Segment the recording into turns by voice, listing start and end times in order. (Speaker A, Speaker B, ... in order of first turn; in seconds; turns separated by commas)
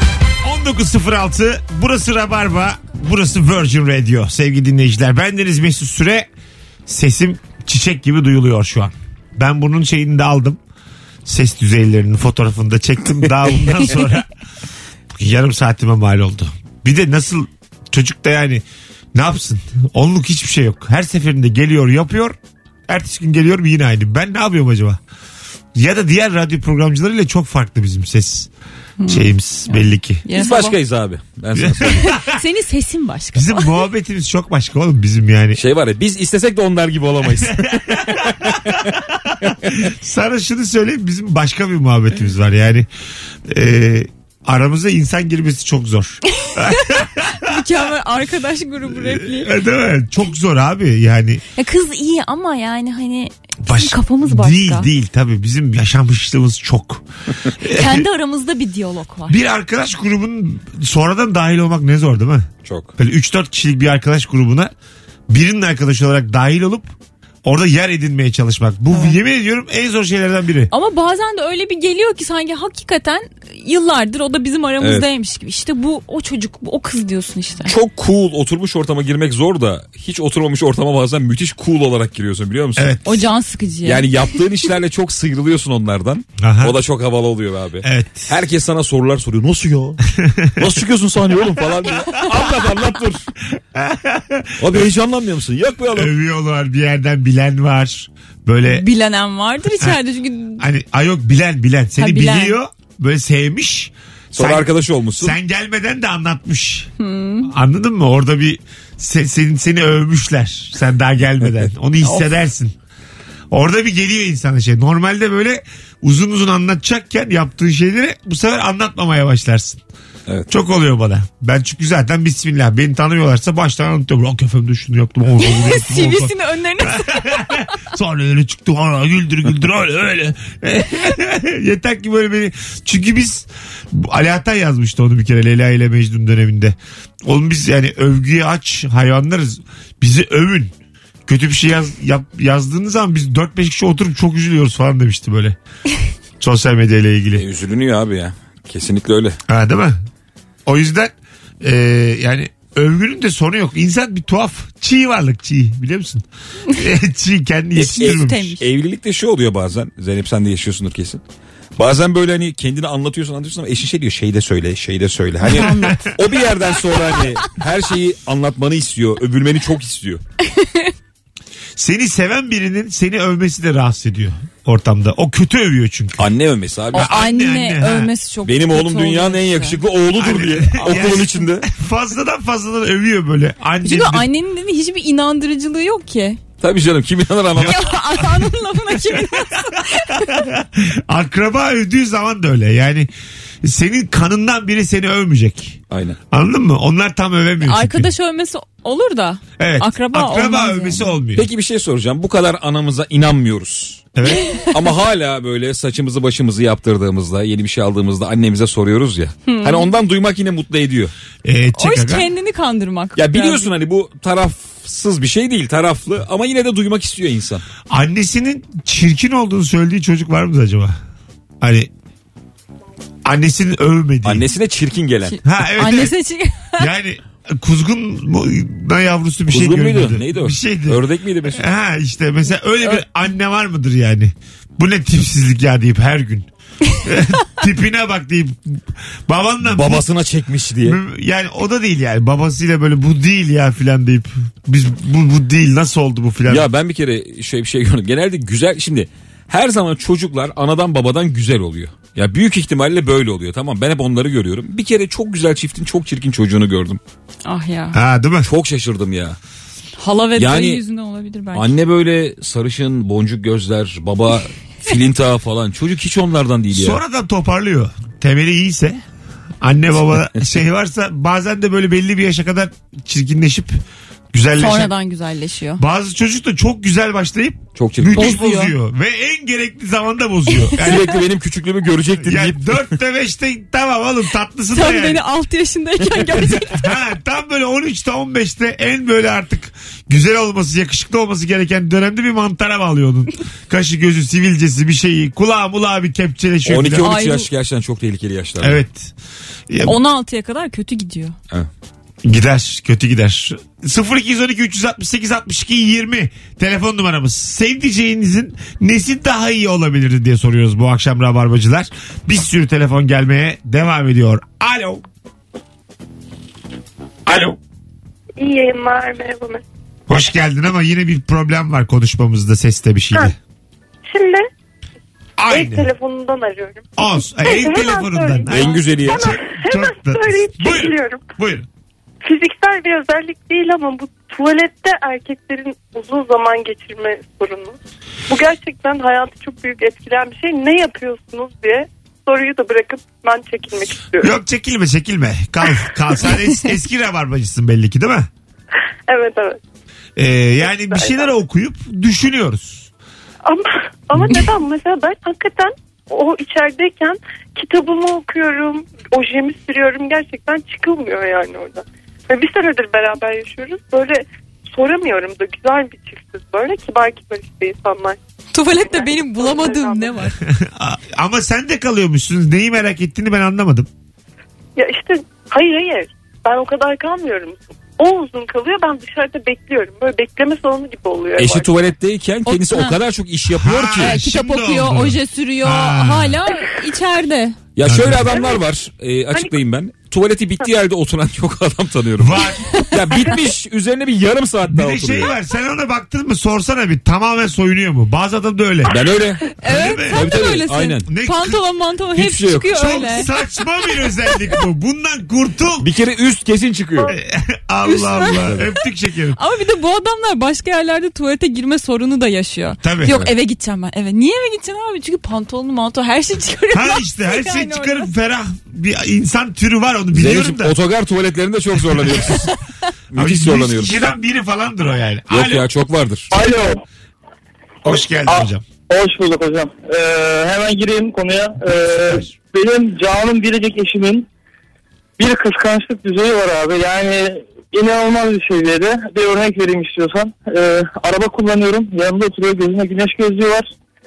Speaker A: 0.4-6.3, Speaker A: 6.9-10.6, Speaker A: 11.2-14.3, Speaker A: 15.1-22.4, Speaker A: 22.9-25.0, Speaker A: 25.7-28.5, Speaker B: 29.0-30.8, Speaker A: 29.1-30.2, Speaker C: 30.3-32.2, Speaker A: 31.6-32.3, Speaker B: 32.0-33.8, Speaker A: 33.3-35.6, Speaker C: 35.5-39.8, Speaker A: 37.4-38.5, Speaker A: 39.2-42.9, Speaker A: 43.5-47.5, Speaker B: 46.4-49.5, Speaker A: 48.9-51.4, Speaker B: 51.5-54.9, Speaker A: 53.6-57.0, Speaker A: 57.6-58.1, Speaker B: 57.6-59.4, Speaker A: 59.3-64.7, Speaker C: 62.6-62.9, Speaker A: 65.3-66.9, Speaker A: 67.4-70.7, Speaker B: 70.7-77.7, Speaker C: 74.8-75.1, Speaker C: 77.6-82.9, Speaker A: 82.8-83.2, Speaker B: 83.0-84.4, Speaker C: 83.8-90.0, Speaker A: 86.4-86.8, Speaker A: 87.8-88.3, Speaker A: 90.1-90.7, Speaker C: 90.5-93.2, Speaker A: 93.5-94.9, Speaker C: 94.6-96.1, Speaker A: 95.9-98.8, Speaker B: 98.6-100.6, Speaker A: 100.6-104.7, Speaker B: 102.0-102.6, Speaker C: 104.3-105.4, Speaker A: 105.2-106.9, Speaker B: 107.0-107.5, Speaker A: 107.5-112.7, Speaker B: 112.0-112.3, Speaker A: 113.5-119.8, Speaker A: 120.5-140.7, Speaker B: 125.4-127.8, Speaker A: 141.3-145.6, Speaker A: 146.4-147.4, Speaker C: 147.3-149.4, Speaker A: 149.5-150.0, Speaker A: 150.7-158.5, Speaker C: 157.8-161.2, Speaker B: 157.8-158.6, Speaker C: 161.8-170.2, Speaker B: 165.4-166.1, Speaker A: 165.4-166.1, Speaker B: 170.6-170.9, Speaker A: 171.8-176.3, Speaker C: 176.2-177.1, Speaker A: 176.9-178.1, Speaker B: 176.9-179.8, Speaker C: 178.4-181.7, Speaker A: 180.2-184.3, Speaker B: 183.8-186.4, Speaker C: 186.6-188.0, Speaker B: 187.6-190.3, Speaker A: 190.2-193.1, Speaker A: 193.6-195.8, Speaker C: 195.9-196.2, Speaker A: 196.3-198.1, Speaker B: 197.6-201.1, Speaker A: 199.6-201.5, Speaker C: 201.3-204.1, Speaker A: 204.2-204.4, Speaker B: 204.2-204.7, Speaker C: 204.7-211.1, Speaker B: 209.4-209.9, Speaker A: 211.4-212.3, Speaker B: 211.7-213.7, Speaker C: 213.2-217.7, Speaker A: 217.9-221.0, Speaker A: 221.6-221.9, Speaker A: 223.2-224.5, Speaker C: 224.2-225.3, Speaker B: 225.2-226.9, Speaker A: 225.4-226.1, Speaker A: 226.8-231.0, Speaker C: 229.5-231.6, Speaker A: 231.5-236.5, Speaker A: 237.0-240.0, Speaker C: 239.7-241.0, Speaker A: 240.8-246.7, Speaker C: 246.5-257.0, Speaker B: 257.4-258.0, Speaker A: 257.9-258.5, Speaker C: 258.4-259.4, Speaker B: 260.0-261.7, Speaker C: 260.4-260.8, Speaker C: 261.5-267.0, Speaker A: 266.7-269.0, Speaker A: 269.6-273.8, Speaker A: 274.3-274.9, Speaker B: 274.6-275.8, Speaker A: 275.8-281.0, Speaker C: 277.8-278.4, Speaker B: 278.1-278.7, Speaker B: 280.5-281.0, Speaker C: 280.8-282.8, Speaker A: 282.2-285.2, Speaker B: 284.7-286.9, Speaker A: 286.7-297.2, Speaker C: 296.6-298.8, Speaker B: 297.0-297.5, Speaker A: 298.6-299.1, Speaker A: 299.7-300.0, Speaker B: 299.8-301.4, Speaker A: 302.2-315.0, Speaker A: 317.2-317.6, Speaker D: 318.4-319.6, Speaker A: 320.1-323.4, Speaker D: 324.1-324.4, Speaker A: 325.4-325.9, Speaker D: 325.5-331.2, Speaker A: 327.0-331.6, Speaker C: 328.5-329.4, Speaker D: 332.2-337.8, Speaker D: 338.3-344.3, Speaker A: 344.2-348.3, Speaker D: 349.1-349.6, Speaker A: 350.2-352.9, Speaker D: 350.8-351.2, Speaker D: 353.4-368.2, Speaker B: 368.5-370.4, Speaker D: 368.8-370.2, Speaker A: 370.4-373.9, Speaker D: 374.8-381.7, Speaker C: 381.4-384.2, Speaker B: 382.4-383.0, Speaker A: 383.5-386.4, Speaker B: 384.0-387.6, Speaker C: 387.8-395.3, Speaker A: 387.8-388.4, Speaker D: 388.3-388.6, Speaker A: 392.2-392.6, Speaker B: 392.7-393.3, Speaker A: 394.7-399.0, Speaker C: 398.9-401.1, Speaker B: 399.6-403.3, Speaker A: 399.6-400.3, Speaker A: 401.1-401.6, Speaker C: 402.1-403.0, Speaker A: 402.7-405.9, Speaker C: 405.8-407.1, Speaker A: 407.1-409.4, Speaker B: 407.8-408.5, Speaker B: 409.4-418.1, Speaker A: 412.8-413.2, Speaker C: 413.1-413.3, Speaker A: 416.7-420.7, Speaker C: 420.1-422.5, Speaker C: 423.1-423.9, Speaker A: 423.1-425.7, Speaker C: 425.3-426.3, Speaker E: 426.3-426.8, Speaker A: 427.8-428.6, Speaker E: 428.3-434.3, Speaker E: 435.2-443.7